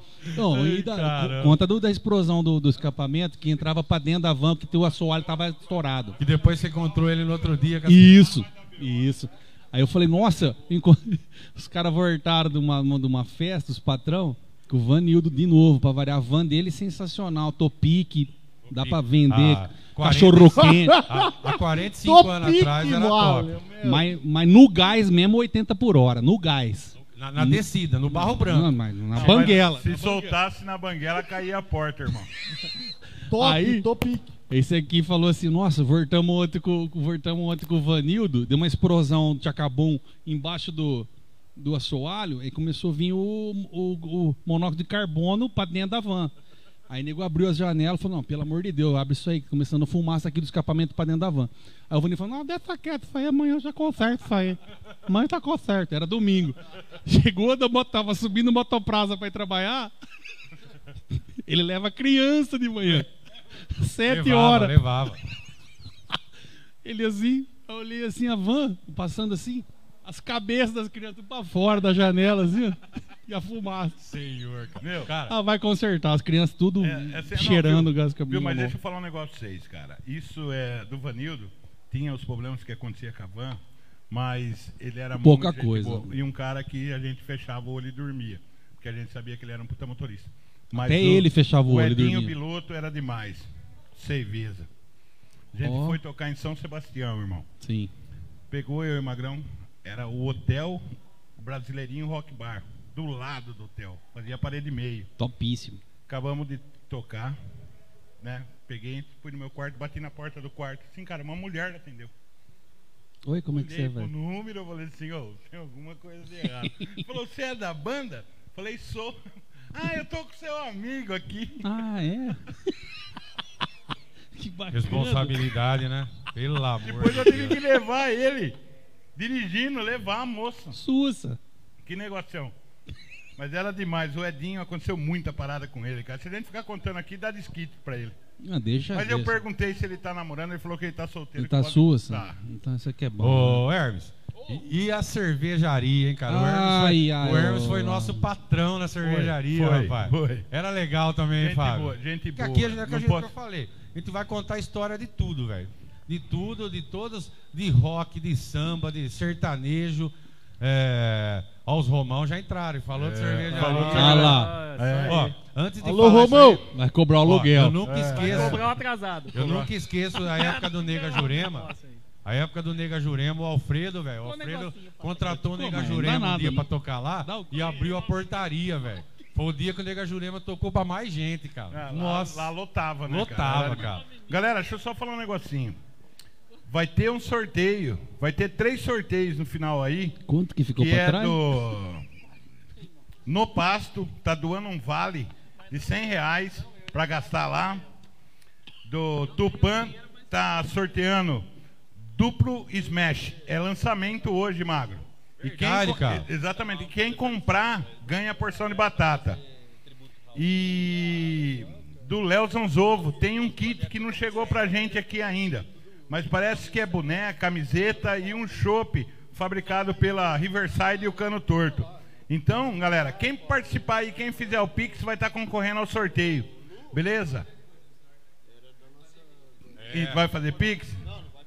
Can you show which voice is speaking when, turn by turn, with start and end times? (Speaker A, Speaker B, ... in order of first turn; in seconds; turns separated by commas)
Speaker A: 0.3-6.2, Speaker B: 0.3-1.6, Speaker B: 6.2-8.3, Speaker A: 7.8-21.1, Speaker B: 18.7-23.6, Speaker C: 20.6-21.3, Speaker C: 21.8-24.1, Speaker A: 23.8-30.4, Speaker B: 27.1-29.5, Speaker D: 29.1-32.3, Speaker C: 33.3-34.3, Speaker A: 33.3-33.9, Speaker A: 34.5-46.3, Speaker A: 46.9-59.9, Speaker A: 61.4-63.1, Speaker A: 63.7-64.8, Speaker B: 64.0-65.2, Speaker A: 66.8-74.0, Speaker B: 74.0-75.4, Speaker D: 74.8-75.1, Speaker A: 75.2-78.7, Speaker D: 76.8-94.7, Speaker A: 85.2-86.2, Speaker A: 90.7-92.3, Speaker D: 95.5-97.5, Speaker A: 95.6-96.0, Speaker A: 97.6-97.9, Speaker D: 98.5-100.8, Speaker D: 101.4-105.1, Speaker A: 105.2-105.8, Speaker D: 106.1-107.4, Speaker D: 108.2-112.1, Speaker A: 113.2-114.1, Speaker D: 113.5-119.2, Speaker D: 119.7-121.8, Speaker A: 121.6-122.9, Speaker A: 124.3-125.5, Speaker B: 124.7-127.7, Speaker D: 126.8-128.6, Speaker D: 129.2-130.8, Speaker A: 130.7-131.4, Speaker D: 131.8-132.5, Speaker D: 133.4-138.2, Speaker A: 138.4-139.4, Speaker D: 138.9-142.4, Speaker A: 141.4-143.6, Speaker B: 143.2-164.4, Speaker A: 146.3-148.2, Speaker D: 149.0-150.5, Speaker D: 151.4-153.3, Speaker D: 162.9-165.3, Speaker E: 163.6-165.2, Speaker A: 163.9-164.6, Speaker B: 165.1-166.7, Speaker C: 165.8-166.6, Speaker A: 166.7-167.9, Speaker B: 167.2-168.7, Speaker D: 167.8-168.7, Speaker E: 168.0-169.4, Speaker B: 169.3-171.7, Speaker D: 169.3-169.7, Speaker E: 170.1-172.0, Speaker B: 172.2-182.5, Speaker E: 174.2-175.3, Speaker A: 175.3-176.7, Speaker A: 177.2-177.6, Speaker D: 181.7-185.8, Speaker B: 183.1-184.1, Speaker D: 186.7-190.2, Speaker A: 190.3-191.4, Speaker D: 190.7-192.0, Speaker D: 193.2-197.8, Speaker D: 198.8-209.4, Speaker B: 205.4-206.3, Speaker D: 210.3-227.5, Speaker B: 229.8-230.2, Speaker D: 229.9-231.1